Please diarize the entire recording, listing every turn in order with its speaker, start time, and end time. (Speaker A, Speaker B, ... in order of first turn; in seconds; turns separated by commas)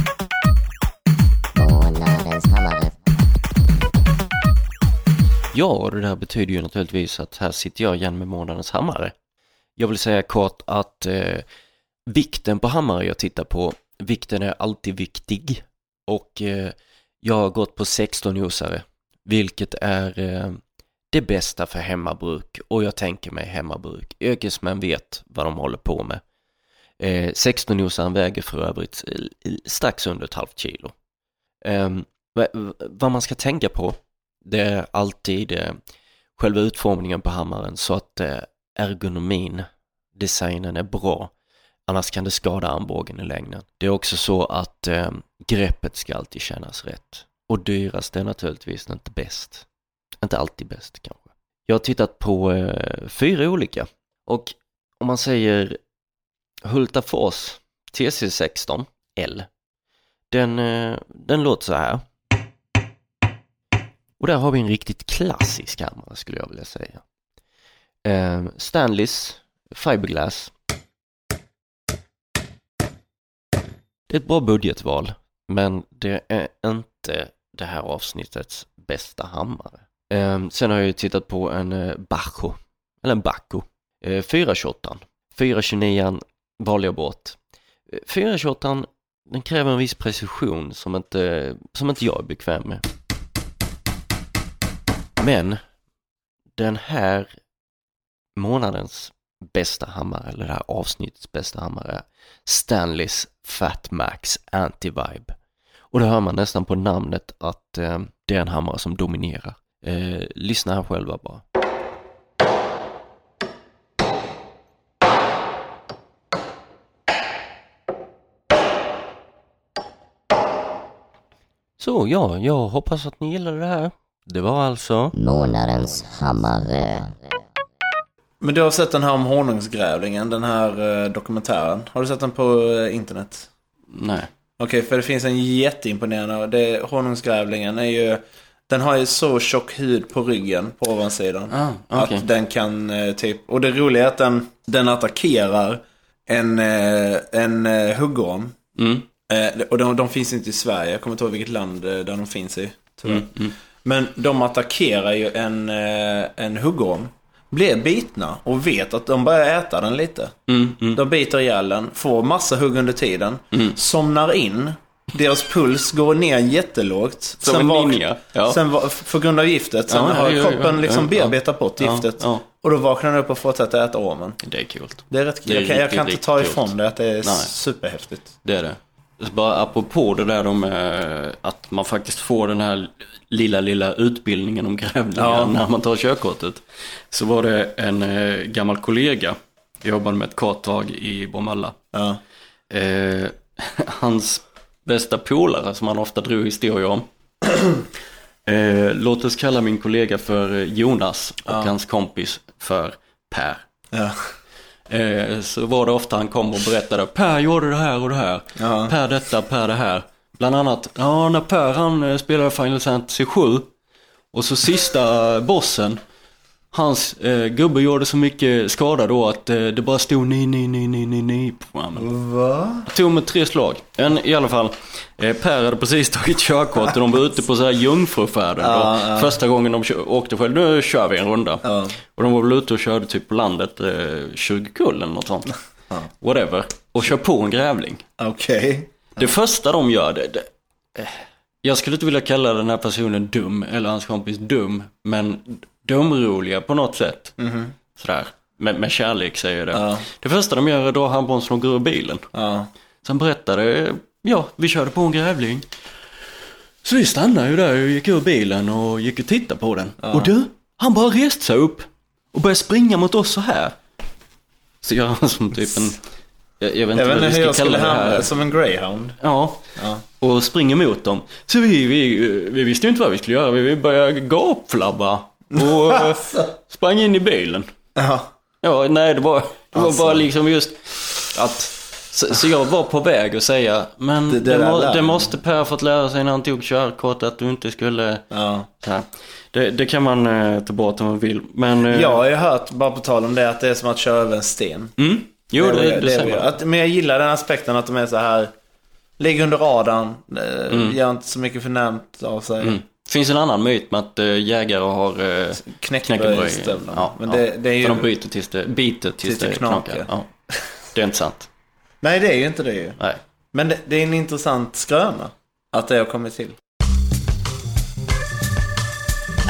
Speaker A: 1.6-3.0, Speaker B: 5.5-9.1, Speaker B: 9.8-11.4, Speaker B: 12.1-20.6, Speaker B: 21.1-26.2, Speaker B: 27.0-30.9, Speaker B: 31.6-35.8, Speaker B: 36.4-41.3, Speaker B: 41.9-49.6, Speaker B: 50.2-55.8, Speaker B: 56.6-59.5, Speaker B: 60.3-62.0, Speaker B: 64.2-67.0, Speaker B: 68.0-70.5, Speaker B: 74.1-92.8, Speaker B: 95.2-95.6, Speaker B: 96.6-97.3, Speaker B: 98.4-105.3, Speaker B: 105.9-111.4, Speaker B: 121.8-125.1, Speaker A: 125.1-127.2, Speaker C: 128.4-133.5, Speaker B: 133.9-134.3, Speaker C: 134.6-148.6, Speaker B: 141.5-142.3, Speaker B: 148.8-149.1, Speaker C: 149.3-160.3, Speaker B: 153.1-153.6, Speaker B: 160.5-161.0, Speaker C: 160.9-174.4, Speaker B: 167.4-168.6, Speaker B: 169.9-172.4, Speaker B: 174.4-177.5, Speaker C: 175.1-178.3, Speaker B: 178.4-191.8, Speaker C: 185.2-185.6, Speaker C: 191.9-192.2, Speaker B: 192.7-197.1, Speaker B: 198.4-203.6, Speaker C: 203.9-204.3, Speaker B: 204.9-213.7, Speaker C: 208.6-208.9, Speaker B: 214.3-216.0, Speaker B: 216.7-222.1, Speaker C: 222.0-222.9, Speaker B: 222.9-235.5, Speaker C: 228.6-229.4, Speaker C: 231.6-231.9, Speaker B: 236.2-238.0, Speaker C: 238.2-239.2, Speaker B: 239.2-247.4, Speaker C: 247.4-247.7, Speaker B: 247.9-252.3, Speaker C: 249.7-250.1, Speaker C: 252.3-252.7, Speaker B: 253.0-255.7, Speaker B: 256.8-263.8, Speaker C: 260.0-260.3, Speaker B: 264.8-266.0, Speaker B: 266.6-268.3, Speaker C: 266.9-269.2, Speaker B: 269.2-269.6, Speaker C: 269.8-270.0, Speaker B: 270.2-277.7, Speaker C: 275.6-276.4, Speaker C: 277.9-278.3, Speaker B: 278.6-288.2, Speaker C: 279.7-280.3, Speaker C: 284.3-285.3, Speaker C: 288.3-288.7, Speaker B: 288.8-292.2, Speaker C: 291.9-295.0, Speaker B: 295.0-296.5, Speaker C: 295.6-298.5, Speaker C: 299.2-302.8, Speaker B: 300.7-301.0, Speaker B: 302.6-310.3, Speaker C: 305.6-308.1, Speaker C: 309.2-310.1, Speaker B: 310.9-311.5, Speaker C: 312.0-313.0, Speaker C: 313.5-316.6